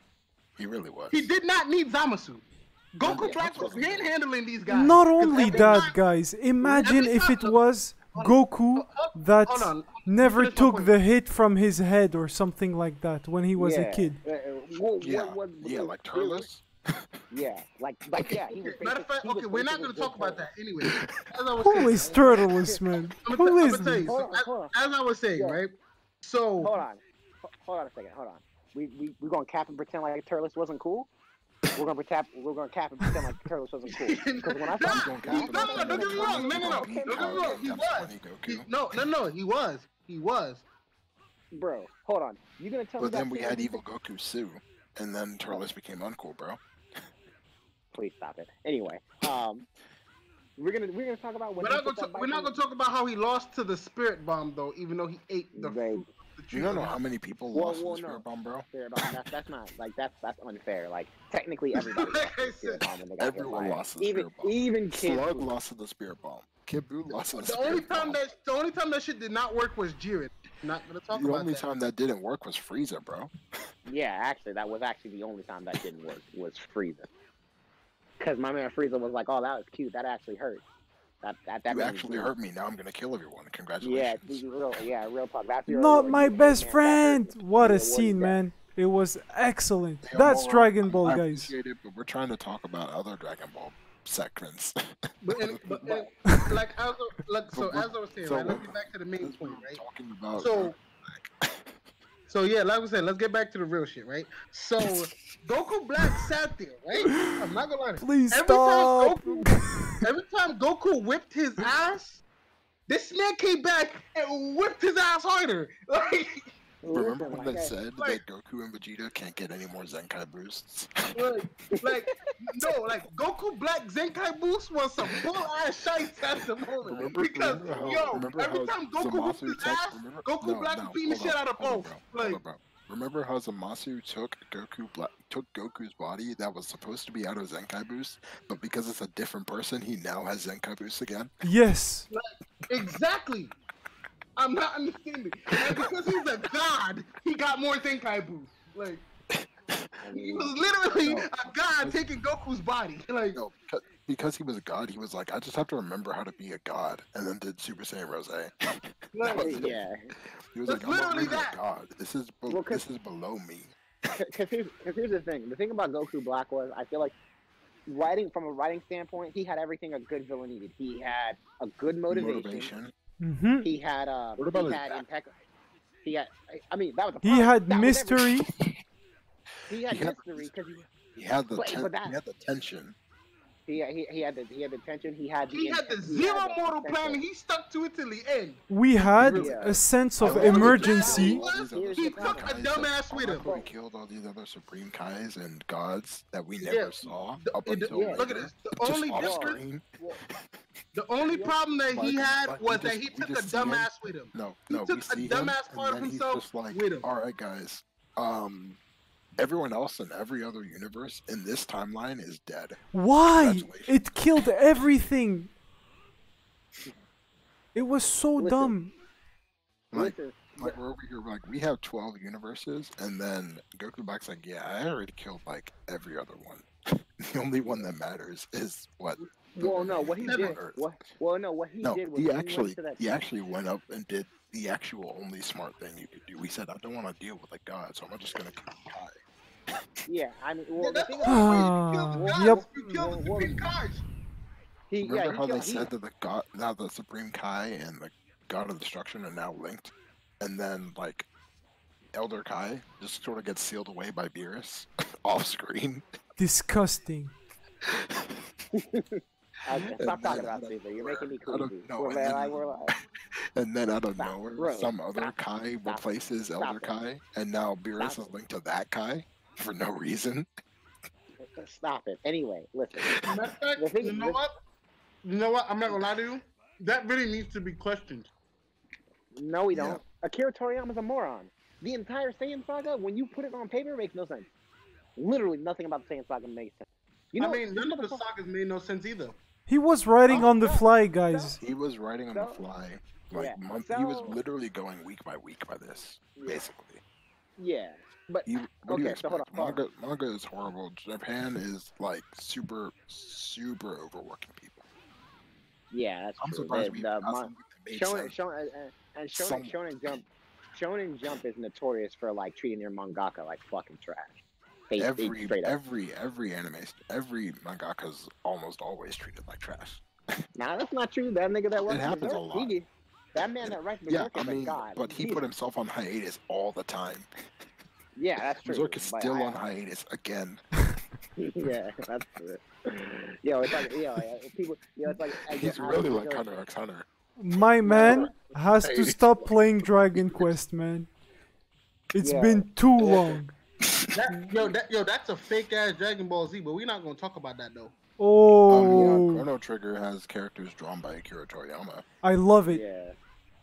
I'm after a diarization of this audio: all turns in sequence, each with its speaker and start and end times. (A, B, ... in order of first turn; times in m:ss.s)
0:00.6-0:01.3 A
0:01.1-0:06.0 B
0:03.0-0:04.1 A
0:04.7-0:14.2 C
0:05.4-0:05.8 D
0:06.6-0:07.6 B
0:08.1-0:10.9 B
0:13.6-0:16.5 D
0:15.0-0:17.1 A
0:17.3-0:20.5 D
0:18.4-0:22.4 B
0:20.8-0:21.1 A
0:21.6-0:24.1 C
0:22.0-0:22.3 D
0:23.2-0:26.8 B
0:24.0-0:24.7 D
0:25.3-0:25.6 D
0:26.6-0:31.1 D
0:31.7-0:37.6 D
0:33.9-0:40.6 B
0:34.9-0:38.7 A
0:41.5-0:43.8 D
0:43.0-0:46.6 A
0:47.9-0:49.6 D
0:50.6-0:52.6 D
0:51.6-0:57.0 B
0:55.5-0:56.0 D
0:56.5-0:58.7 A
0:57.5-1:05.5 D
1:01.8-1:02.8 B
1:03.2-1:08.2 A
1:07.3-1:11.6 B
1:11.1-1:13.3 A
1:13.8-1:17.1 D
1:18.2-1:20.6 D
1:21.2-1:22.3 D
1:21.7-1:24.5 A
1:23.8-1:28.4 D
1:25.7-1:31.5 C
1:30.0-1:36.1 A
1:35.2-1:39.8 B
1:37.5-1:41.7 A
1:40.3-1:40.7 B
1:42.3-1:49.4 B
1:47.0-1:47.3 C
1:48.0-1:49.9 C
1:50.0-1:52.2 B
1:52.9-1:56.4 B
1:56.8-1:57.8 D
1:56.9-2:01.2 A
2:01.1-2:12.4 B
2:06.8-2:21.3 A
2:07.8-2:08.1 D
2:21.4-2:22.1 C
2:22.1-2:23.5 B
2:24.4-2:29.0 B
2:25.5-2:25.9 A
2:29.3-2:29.9 A
2:30.0-2:30.6 D
2:30.1-2:33.4 B
2:31.0-2:32.0 A
2:33.3-2:39.9 A
2:39.1-2:39.6 B
2:39.4-2:39.9 D
2:40.5-2:43.7 A
2:40.7-2:41.6 B
2:42.5-2:42.8 D
2:44.2-2:47.1 D
2:47.8-2:52.7 D
2:52.1-2:52.9 A
2:53.2-2:53.7 C
2:53.6-2:55.3 D
2:54.4-2:55.0 A
2:56.0-2:58.2 D
2:57.2-2:58.5 C
2:59.7-3:00.8 D
2:59.9-3:02.9 A
3:01.6-3:02.2 D
3:03.7-3:07.2 D
3:05.5-3:08.6 B
3:08.7-3:11.4 C
3:09.1-3:20.3 A
3:09.3-3:12.6 D
3:10.2-3:13.5 B
3:13.3-3:13.7 D
3:16.6-3:20.2 B
3:17.9-3:18.3 D
3:19.1-3:19.6 D
3:20.9-3:27.0 B
3:21.2-3:21.5 D
3:21.9-3:28.8 A
3:29.4-3:32.8 A
3:32.9-3:35.5 C
3:33.4-3:34.0 A
3:37.7-3:38.9 C
3:38.4-3:38.8 D
3:39.9-3:46.7 A
3:39.9-3:40.8 D
3:47.2-3:50.9 A
3:47.6-3:47.9 D
3:49.6-3:53.0 D
3:50.2-3:50.6 B
3:51.8-3:59.2 A
4:00.1-4:03.6 D
4:00.8-4:04.0 B
4:01.2-4:02.6 C
4:04.9-4:05.9 D
4:05.0-4:11.3 A
4:12.1-4:16.0 A
4:16.4-4:17.3 C
4:17.9-4:18.4 A
4:18.8-4:22.9 D
4:19.7-4:22.8 A
4:23.5-4:30.5 A
4:24.1-4:26.0 D
4:26.6-4:26.9 D
4:28.0-4:28.2 D
4:31.4-4:33.2 D
4:33.0-4:33.3 A
4:33.3-4:34.5 B
4:33.8-4:34.4 D
4:35.2-4:38.3 B
4:39.3-4:44.5 D
4:39.7-4:40.0 A
4:45.2-4:48.2 D
4:47.4-4:49.4 B
4:49.7-4:51.6 C
4:50.3-4:51.6 D
4:51.6-4:57.0 A
4:52.3-4:52.6 D
4:53.3-4:54.4 D
4:56.4-4:56.6 D
4:57.6-4:59.8 D
4:58.4-5:04.8 A
5:05.9-5:14.4 D
5:06.4-5:08.4 A
5:09.3-5:10.2 A
5:14.9-5:15.8 D
5:15.0-5:20.0 A
5:20.6-5:25.4 D
5:21.8-5:22.7 A
5:23.6-5:27.3 A
5:28.2-5:29.6 D
5:28.6-5:30.6 A
5:31.4-5:36.6 D
5:35.5-5:40.6 A
5:37.4-5:41.1 C
5:37.8-5:38.3 D
5:42.1-5:43.5 C
5:42.2-5:43.4 D
5:43.9-5:44.7 A
5:44.1-5:47.9 B
5:48.2-5:49.4 C
5:48.7-5:52.0 A
5:52.2-5:52.8 C
5:52.6-5:53.2 D